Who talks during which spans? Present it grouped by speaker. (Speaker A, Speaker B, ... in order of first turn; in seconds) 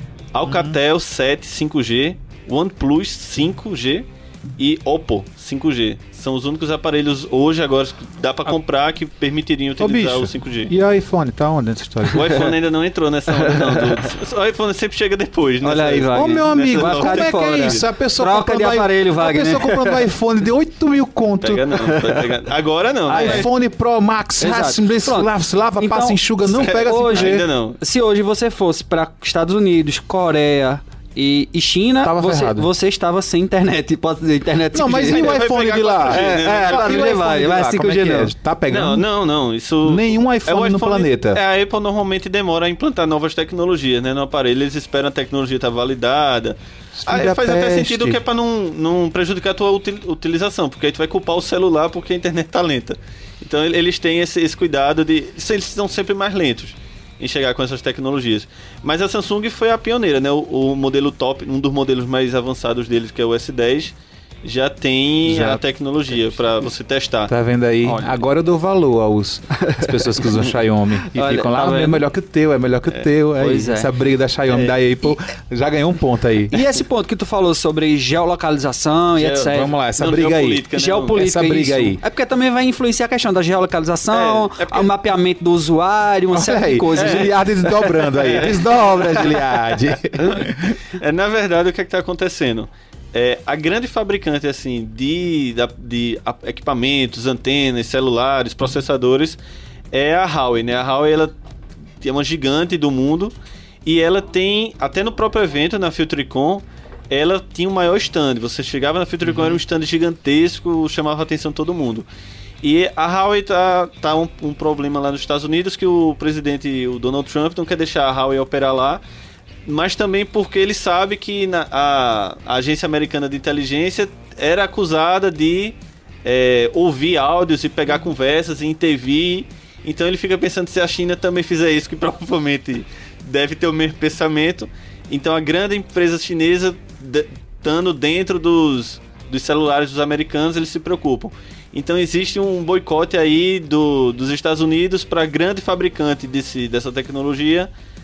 Speaker A: 0.3-4.0, 4.6-10.7, 12.1-17.8, 21.4-23.5, 26.5-27.8, 35.1-37.2, 38.7-67.3, 79.2-81.2, 84.1-84.9, 87.0-87.3, 88.1-88.6, 90.2-99.4, 99.9-101.3, 102.0-103.3, 103.8-112.0, 112.6-119.0, 119.7-147.7
Speaker B: 0.5-0.8, 9.8-12.5, 16.1-22.1, 23.1-27.4, 32.0-32.7, 34.7-39.0, 39.8-41.4, 47.0-48.2, 65.2-65.6, 67.3-76.5, 79.5-82.0, 86.3-90.8, 109.3-109.6
Speaker C: 12.1-12.4, 13.3-14.0, 15.6-20.1, 23.1-23.4, 24.4-26.2, 26.8-35.4, 36.1-38.3, 67.8-68.2, 69.6-70.4, 71.1-72.0, 73.4-73.9, 76.5-79.7, 80.7-88.5